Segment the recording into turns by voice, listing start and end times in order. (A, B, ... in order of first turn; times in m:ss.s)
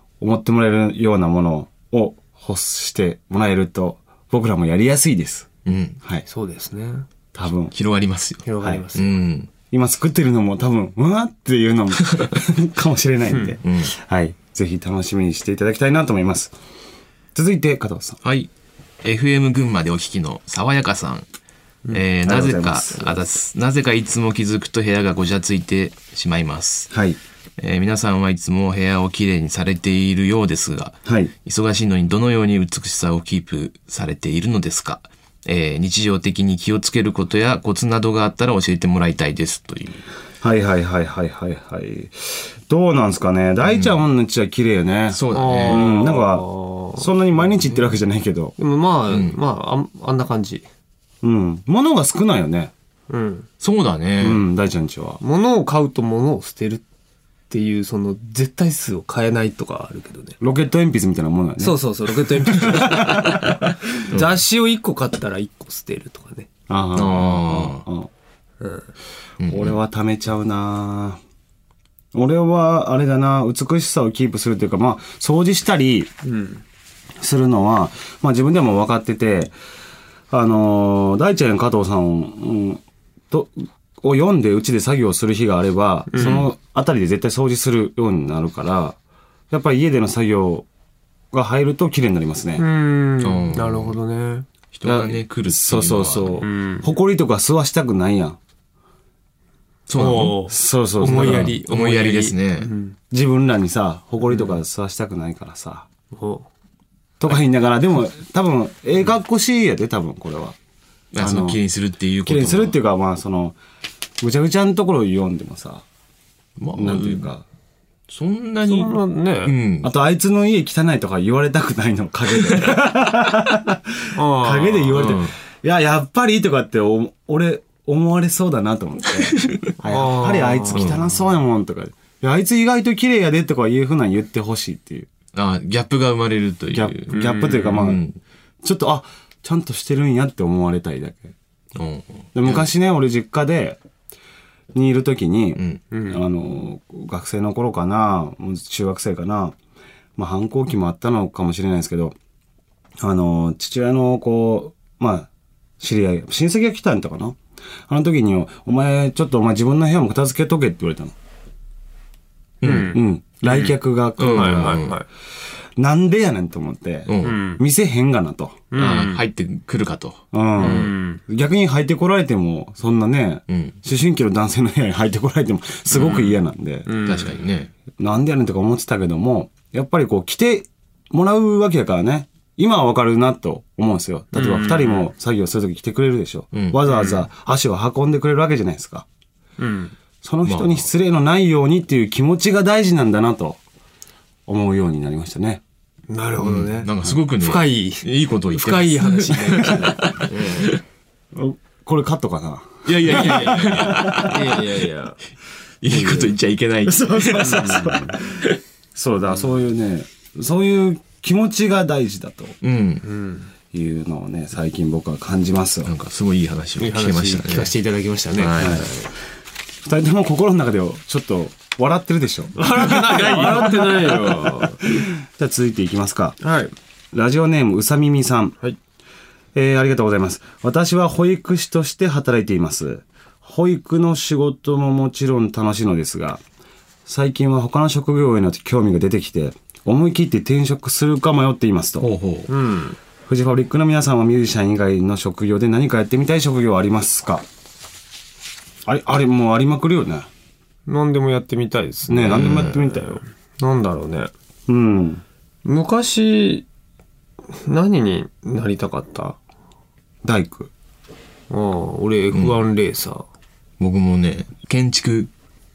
0:00.2-0:05.5 A
0:05.6-0:06.0 B
0:06.3-0:07.1 C
0:07.3-0:07.7 A
0:07.7-0:09.5 B
0:08.4-0:09.2 C
0:08.6-0:08.8 A
0:09.6-0:16.5 A
0:13.3-0:13.5 C
0:13.6-0:13.9 B
0:17.3-0:18.2 A
0:18.2-0:18.5 B
0:19.0-0:21.2 B
0:21.9-0:26.9 B
0:22.2-0:23.2 A
0:26.9-0:27.2 A
0:27.6-0:40.0 B
0:31.0-0:31.3 A
0:40.4-0:48.5 A
0:43.6-0:44.0 B
0:45.1-0:45.9 B
0:45.3-0:47.9 C
0:48.6-0:50.7 C
0:49.1-0:49.4 B
0:51.2-0:52.7 A
0:53.1-0:53.5 C
0:53.6-0:54.4 B
0:54.2-0:55.2 A
0:55.2-0:56.8 C
0:57.5-1:00.4 C
1:00.4-1:03.5 A
1:01.6-1:03.5 C
1:04.1-1:06.5 C
1:06.7-1:08.1 A
1:06.9-1:07.8 B
1:08.6-1:08.9 C
1:09.4-1:09.8 B
1:09.5-1:11.2 A
1:12.1-1:16.1 A
1:16.2-1:16.6 C
1:17.2-1:19.5 A
1:20.3-1:29.0 A
1:26.1-1:26.5 C
1:26.1-1:26.5 B
1:29.5-1:30.7 A
1:31.3-1:32.6 A
1:32.6-1:34.5 C
1:33.2-1:34.0 B
1:34.7-1:36.4 B
1:34.8-1:38.4 A
1:36.4-1:36.9 C
1:39.9-1:40.5 B
1:40.0-1:43.0 C
1:40.0-1:41.6 A
1:41.0-1:42.7 B
1:43.1-1:45.9 A
1:44.2-1:44.6 C
1:46.1-1:46.5 C
1:47.2-1:50.6 A
1:51.1-1:52.8 B
1:51.2-1:51.6 A
1:52.2-1:53.6 A
1:54.2-1:55.8 A
1:56.6-1:57.3 B
1:56.7-1:57.4 A
1:58.1-1:59.9 B
1:58.7-1:59.6 C
1:59.8-2:15.1 A
2:04.2-2:05.0 C
2:04.9-2:05.3 B
2:09.8-2:11.0 C
2:10.7-2:11.0 B
2:15.3-2:18.2 B
2:16.7-2:18.0 A
2:17.1-2:17.8 C
2:18.6-2:21.3 A
2:21.8-2:22.7 B
2:22.3-2:23.8 A
2:24.7-2:29.6 A
2:25.6-2:25.8 B
2:25.9-2:26.2 C
2:30.2-2:32.2 A
2:33.0-2:35.3 A
2:35.8-2:41.1 A
2:42.6-2:42.9 B
2:42.6-2:43.7 C
2:42.7-2:44.9 A
2:44.2-2:45.0 B
2:44.2-2:45.0 C
2:45.8-2:48.6 A
2:47.0-2:47.5 B
2:47.2-2:47.6 C
2:48.7-2:49.2 C
2:48.7-2:50.9 B
2:50.3-2:56.9 A
2:50.6-2:51.2 C
2:53.5-2:53.8 B
2:55.9-2:56.3 B
2:55.9-2:56.3 C
2:56.8-2:57.3 C
2:57.0-2:57.7 B
2:57.9-3:09.0 A
3:04.3-3:05.1 C
3:06.5-3:06.8 B
3:06.9-3:07.2 C
3:09.6-3:10.0 C
3:10.2-3:13.6 A
3:10.4-3:10.9 B
3:14.5-3:15.6 A
3:16.1-3:20.7 C
3:16.4-3:20.7 B
3:21.3-3:24.3 A
3:22.8-3:24.5 B
3:23.1-3:25.2 C
3:25.8-3:27.9 B
3:25.9-3:26.3 A
3:26.8-3:28.2 A
3:27.4-3:28.1 C
3:28.9-3:32.6 A
3:32.6-3:33.0 B
3:33.0-3:33.5 C
3:33.6-3:35.9 A
3:35.8-3:37.7 B
3:36.8-3:39.1 C
3:38.4-3:38.8 B
3:38.6-3:38.8 A
3:39.8-3:46.4 A
3:42.6-3:44.8 C
3:46.4-3:46.7 C
3:47.1-3:48.6 A
3:49.5-3:56.4 A
3:57.0-4:02.1 A
4:02.0-4:02.5 B
4:02.5-4:03.0 C
4:03.2-4:07.4 A
4:08.8-4:10.3 A
4:10.9-4:14.3 C
4:12.1-4:13.2 A
4:12.2-4:12.8 B
4:14.7-4:15.2 A
4:15.6-4:16.6 C
4:17.5-4:19.4 C
4:20.2-4:20.7 A
4:21.5-4:23.2 C
4:22.3-4:22.6 B
4:23.8-4:25.3 B